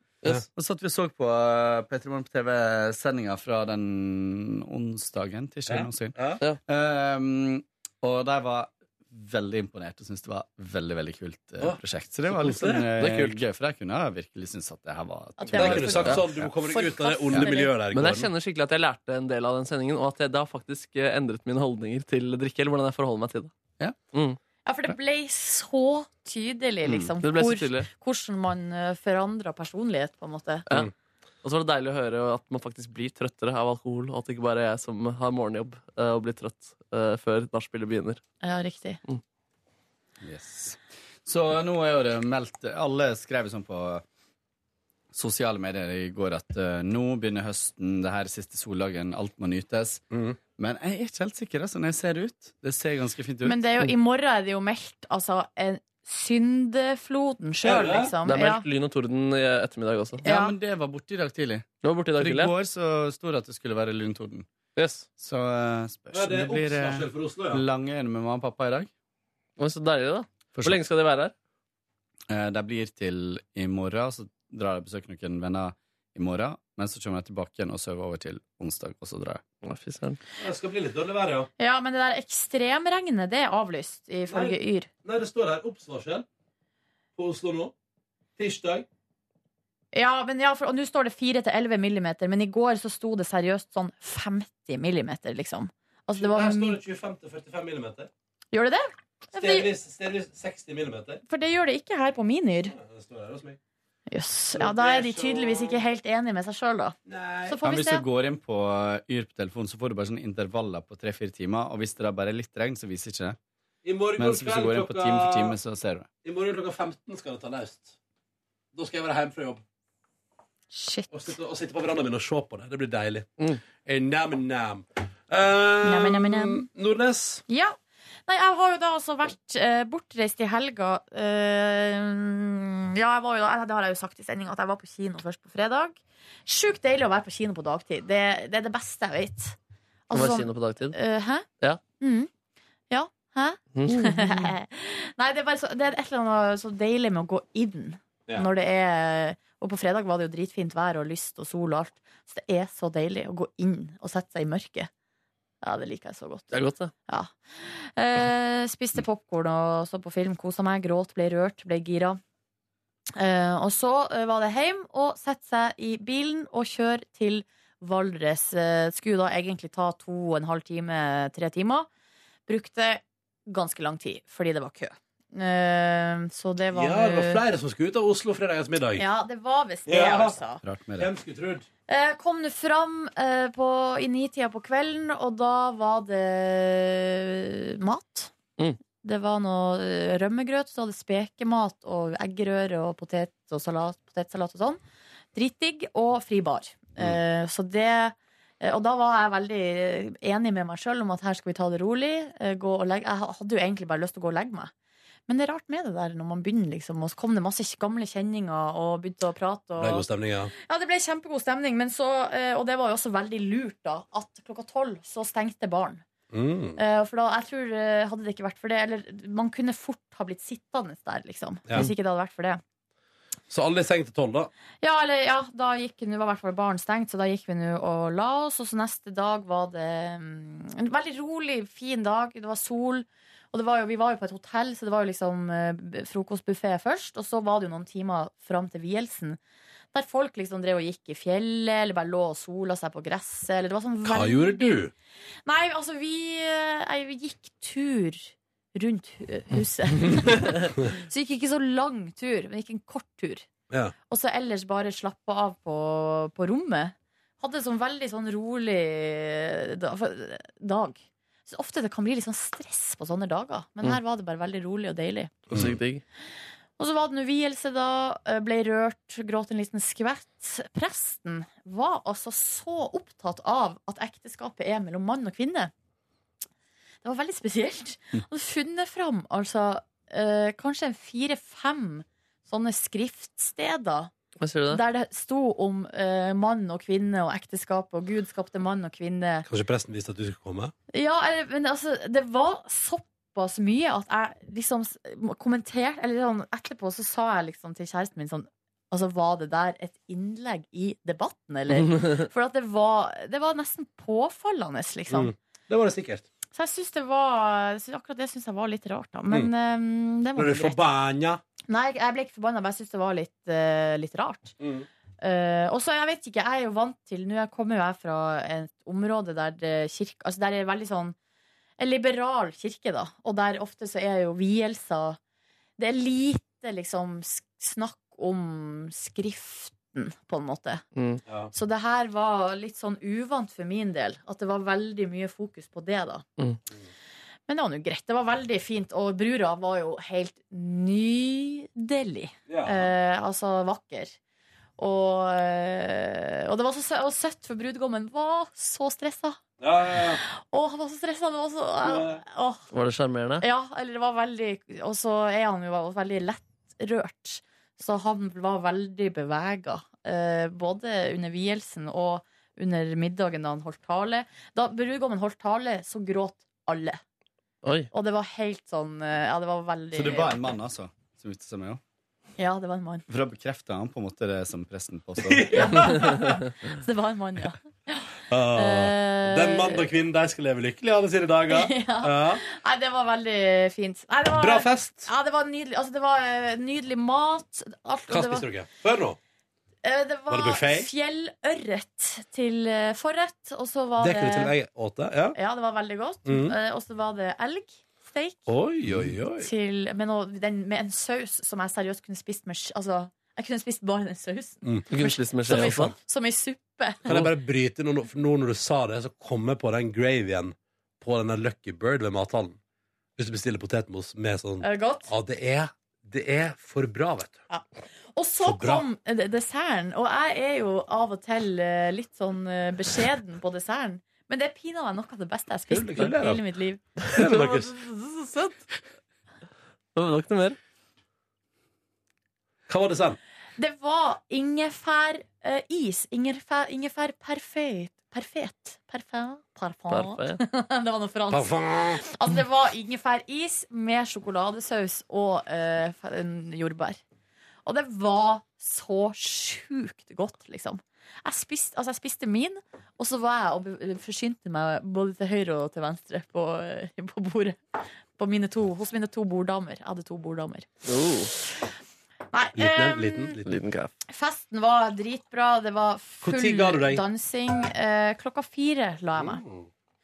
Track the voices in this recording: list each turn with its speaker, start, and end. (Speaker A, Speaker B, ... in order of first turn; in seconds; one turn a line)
Speaker A: 0.5-16.5
Speaker B: 5.7-6.4
Speaker B: 12.3-12.9
Speaker C: 13.0-13.4
Speaker D: 15.4-17.8
Speaker B: 15.6-18.3
Speaker C: 17.9-23.5
Speaker D: 24.7-30.6
Speaker A: 26.8-27.1
Speaker C: 27.2-27.9
Speaker C: 31.4-38.2
Speaker D: 38.4-39.0
Speaker A: 40.2-44.0
Speaker A: 45.1-50.0
Speaker B: 50.1-50.4
Speaker A: 50.6-53.6
Speaker D: 53.5-58.6
Speaker B: 57.6-58.1
Speaker C: 58.2-60.2
Speaker D: 60.2-60.5
Speaker A: 60.2-64.5
Speaker C: 61.8-62.5
Speaker C: 64.8-65.1
Speaker A: 65.2-68.9
Speaker B: 66.1-67.6
Speaker C: 69.6-71.3
Speaker A: 72.3-79.4
Speaker C: 79.6-80.2
Speaker B: 80.4-81.5
Speaker D: 81.6-84.9
Speaker B: 84.3-86.3
Speaker B: 87.2-87.7
Speaker B: 88.4-88.9
Speaker D: 89.9-96.8
Speaker B: 96.2-98.1
Speaker D: 98.5-99.7
Speaker B: 99.3-101.2
Speaker D: 101.3-102.8
Speaker B: 102.7-103.6
Speaker D: 104.1-107.0
Speaker B: 104.5-105.8
Speaker B: 107.1-107.6
Speaker D: 107.5-108.0
Speaker A: 107.6-113.4
Speaker B: 113.8-115.5
Speaker A: 114.2-116.1
Speaker B: 116.2-118.0
Speaker B: 118.7-119.6
Speaker D: 120.7-121.4
Speaker B: 121.1-123.3
Speaker B: 123.8-127.4
Speaker D: 125.8-126.7
Speaker D: 127.5-139.6
Speaker D: 140.1-141.5
Speaker C: 140.1-141.0
Speaker D: 142.0-142.3
Speaker D: 142.9-154.9
Speaker C: 143.8-144.5
Speaker D: 155.6-162.2
Speaker C: 156.5-156.9
Speaker D: 163.2-171.9
Speaker D: 172.5-177.4
Speaker B: 176.7-179.0
Speaker D: 179.0-180.6
Speaker B: 179.9-180.4
Speaker A: 180.6-181.1
Speaker B: 181.0-181.7
Speaker D: 181.9-188.3
Speaker D: 189.0-194.8
Speaker D: 195.3-204.7
Speaker D: 205.3-210.1
Speaker B: 209.8-210.5
Speaker D: 210.7-216.0
Speaker B: 216.3-216.8
Speaker D: 216.8-222.6
Speaker B: 223.5-224.5
Speaker D: 224.8-239.4
Speaker D: 239.9-244.8
Speaker B: 244.0-244.9
Speaker D: 245.5-253.5
Speaker D: 254.1-265.4
Speaker B: 265.5-265.8
Speaker C: 265.5-266.0
Speaker D: 266.8-275.7
Speaker D: 277.0-284.1
Speaker C: 284.4-284.8
Speaker D: 284.7-289.5
Speaker B: 289.5-290.7
Speaker D: 290.9-305.3
Speaker B: 305.1-306.2
Speaker D: 306.5-310.8
Speaker B: 310.4-311.4
Speaker D: 311.7-314.6
Speaker B: 314.6-314.9
Speaker D: 315.2-321.2
Speaker D: 321.8-325.2
Speaker D: 325.8-330.9
Speaker D: 331.5-336.2
Speaker D: 337.5-344.2
Speaker B: 342.5-342.9
Speaker D: 344.8-352.6
Speaker B: 349.6-350.2
Speaker B: 351.8-352.2
Speaker C: 352.7-353.4
Speaker D: 353.4-367.0
Speaker C: 367.6-367.9
Speaker D: 367.9-370.4
Speaker A: 369.9-371.8
Speaker D: 372.4-373.0
Speaker A: 373.1-375.7
Speaker B: 375.2-376.4
Speaker D: 375.5-379.9
Speaker B: 378.3-382.4
Speaker D: 381.5-388.5
Speaker B: 384.4-385.1
Speaker B: 388.1-389.2
Speaker D: 389.8-394.5
Speaker B: 390.3-390.9
Speaker B: 394.0-395.4
Speaker D: 395.4-398.5
Speaker B: 396.3-396.5
Speaker B: 398.5-399.5
Speaker D: 399.4-407.0
Speaker C: 404.9-405.9
Speaker B: 405.5-405.9
Speaker B: 407.1-412.6
Speaker B: 413.2-417.4
Speaker D: 414.6-415.1
Speaker D: 417.5-426.8
Speaker B: 418.4-418.9
Speaker B: 425.7-426.4
Speaker C: 427.0-428.6
Speaker B: 427.1-427.8
Speaker C: 430.0-430.6
Speaker B: 432.7-433.2
Speaker D: 433.6-447.0
Speaker C: 439.9-440.4
Speaker B: 441.3-442.0
Speaker D: 447.7-457.6
Speaker D: 458.2-460.7
Speaker C: 460.9-461.3
Speaker D: 462.3-463.4
Speaker B: 462.6-463.6
Speaker C: 463.5-463.9
Speaker D: 464.1-469.4
Speaker B: 466.2-467.0
Speaker B: 469.2-469.7